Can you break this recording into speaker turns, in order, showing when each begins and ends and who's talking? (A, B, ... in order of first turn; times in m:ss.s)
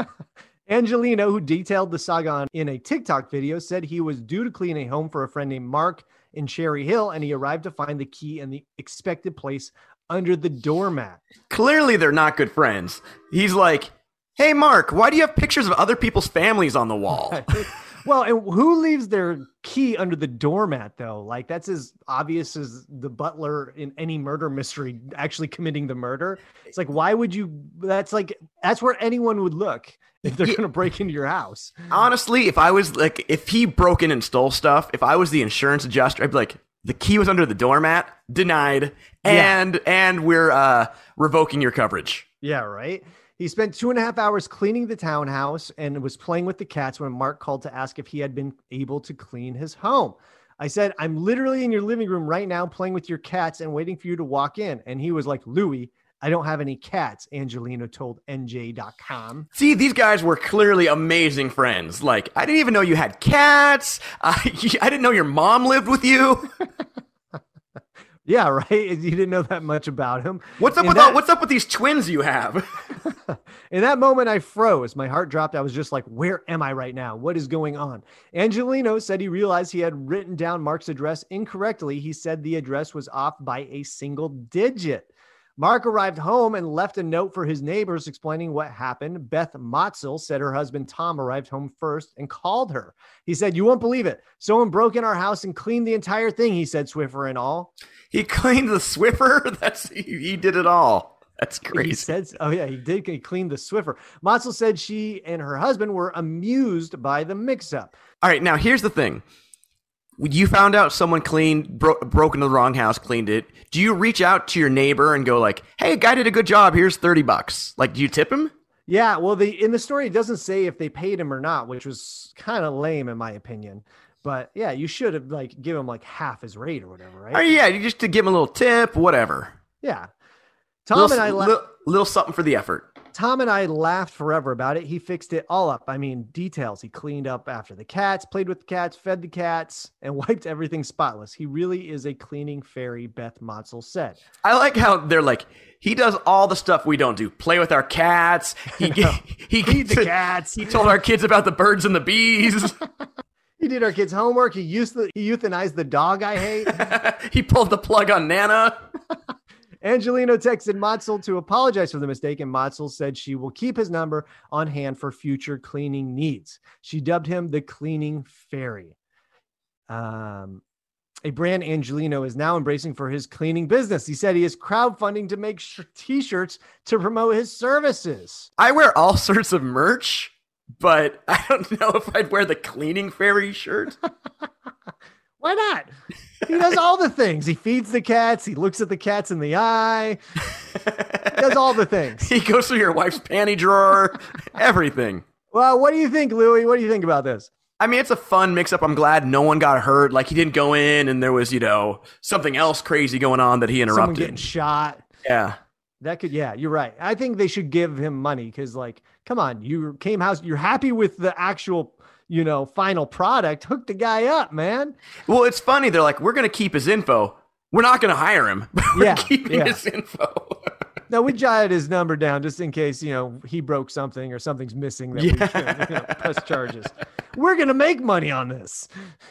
0:00.7-0:11.2 A
0:11.5-0:17.5 B
0:17.1-0:31.7 A
0:30.3-0:30.6 B
0:31.9-0:42.2 B
0:39.2-0:39.6 A
0:42.4-0:59.5 A
0:59.6-1:06.5 B
1:08.3-1:11.2 A
1:10.6-1:12.6 B
1:13.0-1:37.7 A
1:38.1-1:42.1 B
1:41.7-1:47.9 A
1:48.2-1:49.2 B
1:50.2-1:58.5 B
1:58.9-2:07.4 A
2:07.3-2:09.5 B
2:09.8-2:10.1 A
2:10.9-2:11.6 A
2:11.0-2:12.9 B
2:13.1-2:24.2 A
2:24.4-2:32.8 B
2:28.8-2:30.8 A
2:33.6-2:36.9 A
2:36.7-2:38.8 B
2:39.8-2:49.0 A
2:49.9-2:50.6 A
2:51.2-2:58.5 A
2:58.6-3:04.0 B
3:05.4-3:05.9 A
3:06.5-3:10.2 A
3:10.9-3:11.6 B
3:11.3-3:12.2 A
3:12.2-3:15.2 B
3:15.5-3:17.5 A
3:17.8-3:24.5 B
3:23.9-3:25.0 A
3:25.2-3:25.6 B
3:26.0-3:35.0 A
3:35.3-3:40.8 B
3:38.9-3:39.8 A
3:41.1-3:48.9 A
3:45.2-3:46.3 B